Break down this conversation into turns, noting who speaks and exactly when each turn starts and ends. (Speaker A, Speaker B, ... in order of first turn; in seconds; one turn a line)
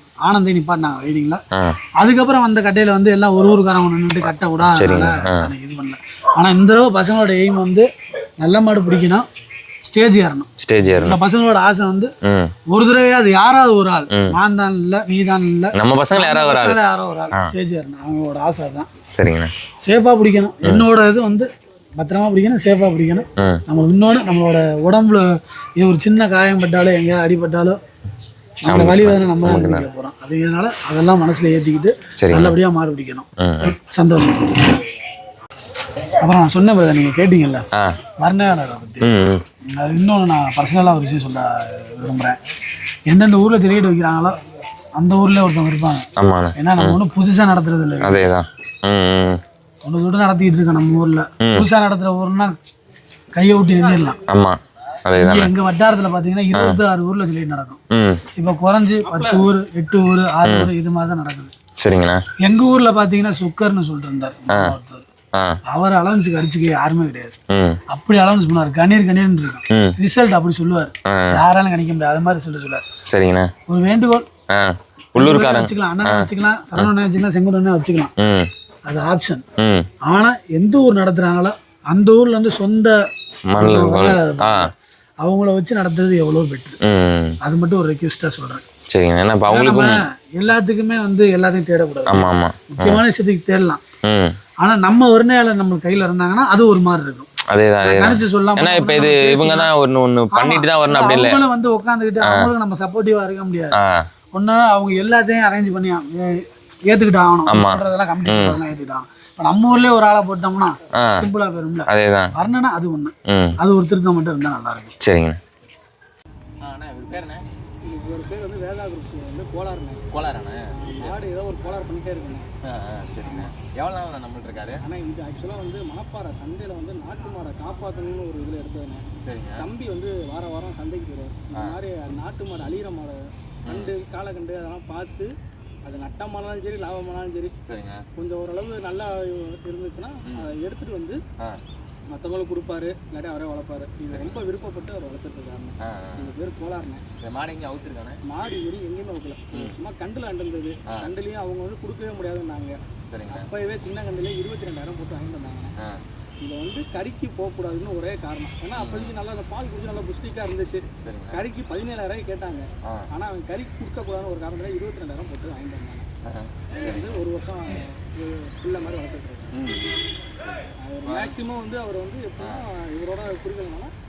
Speaker A: 0.2-1.4
Speaker A: 2.0-7.9
Speaker B: 4.6-5.5
Speaker A: 8.4-9.2
Speaker A: 9.8-12.1
Speaker B: 10.6-11.2
Speaker B: 12.2-12.6
Speaker A: 12.7-18.9
Speaker B: 15.8-16.8
Speaker B: 19.1-19.5
Speaker A: 19.8-25.3
Speaker B: 23.4-23.6
Speaker A: 25.8-27.8
Speaker A: 28.6-34.8
Speaker B: 28.7-29.9
Speaker B: 32.2-32.6
Speaker B: 33.4-33.7
Speaker A: 36.2-37.7
Speaker A: 38.2-39.1
Speaker B: 39.0-39.4
Speaker A: 39.7-42.4
Speaker A: 43.1-44.3
Speaker A: 45.0-46.1
Speaker B: 46.2-47.0
Speaker A: 46.6-48.2
Speaker B: 48.0-49.4
Speaker A: 49.9-52.5
Speaker B: 51.4-51.7
Speaker A: 53.3-54.2
Speaker B: 54.3-55.5
Speaker A: 55.2-57.8
Speaker B: 56.5-56.8
Speaker B: 57.9-58.2
Speaker A: 58.4-61.5
Speaker B: 60.4-60.7
Speaker B: 61.8-62.2
Speaker A: 62.4-65.0
Speaker A: 65.7-67.3
Speaker B: 67.5-67.8
Speaker A: 67.9-72.8
Speaker B: 69.7-70.0
Speaker B: 71.1-71.4
Speaker B: 73.1-73.5
Speaker A: 73.7-74.3
Speaker B: 74.5-76.9
Speaker A: 75.2-78.1
Speaker B: 78.2-78.5
Speaker A: 78.9-79.4
Speaker B: 79.6-79.9
Speaker A: 80.0-83.0
Speaker B: 83.5-84.7
Speaker A: 83.6-86.8
Speaker B: 86.8-87.4
Speaker A: 87.4-88.6
Speaker B: 88.9-90.0
Speaker A: 89.5-93.8
Speaker B: 92.1-93.0
Speaker B: 94.0-94.4
Speaker A: 94.6-97.3
Speaker B: 97.5-101.4
Speaker A: 97.8-99.7
Speaker A: 100.3-103.8
Speaker B: 102.2-102.5
Speaker B: 103.8-104.1
Speaker A: 104.3-115.0
Speaker B: 107.5-108.6
Speaker B: 110.9-111.3
Speaker B: 111.9-112.3
Speaker B: 113.3-113.5
Speaker B: 115.0-115.4
Speaker B: 116.6-117.4
Speaker C: 117.8-120.0
Speaker B: 120.1-121.2
Speaker C: 120.7-122.5
Speaker B: 122.6-124.8
Speaker C: 123.3-123.5
Speaker C: 124.8-135.3
Speaker B: 129.2-129.7
Speaker B: 133.7-133.9
Speaker C: 135.8-137.5
Speaker B: 137.7-138.1
Speaker C: 138.2-141.2
Speaker C: 142.1-147.0
Speaker B: 144.1-144.4
Speaker B: 145.8-146.3
Speaker B: 147.2-148.2
Speaker C: 148.2-152.8
Speaker B: 150.9-151.1
Speaker B: 153.1-153.5
Speaker C: 153.3-155.7
Speaker C: 156.4-166.1
Speaker B: 158.8-159.2
Speaker B: 161.0-161.4
Speaker B: 166.3-167.2
Speaker C: 166.8-169.6
Speaker B: 169.5-169.9
Speaker B: 170.4-171.4
Speaker C: 170.8-173.9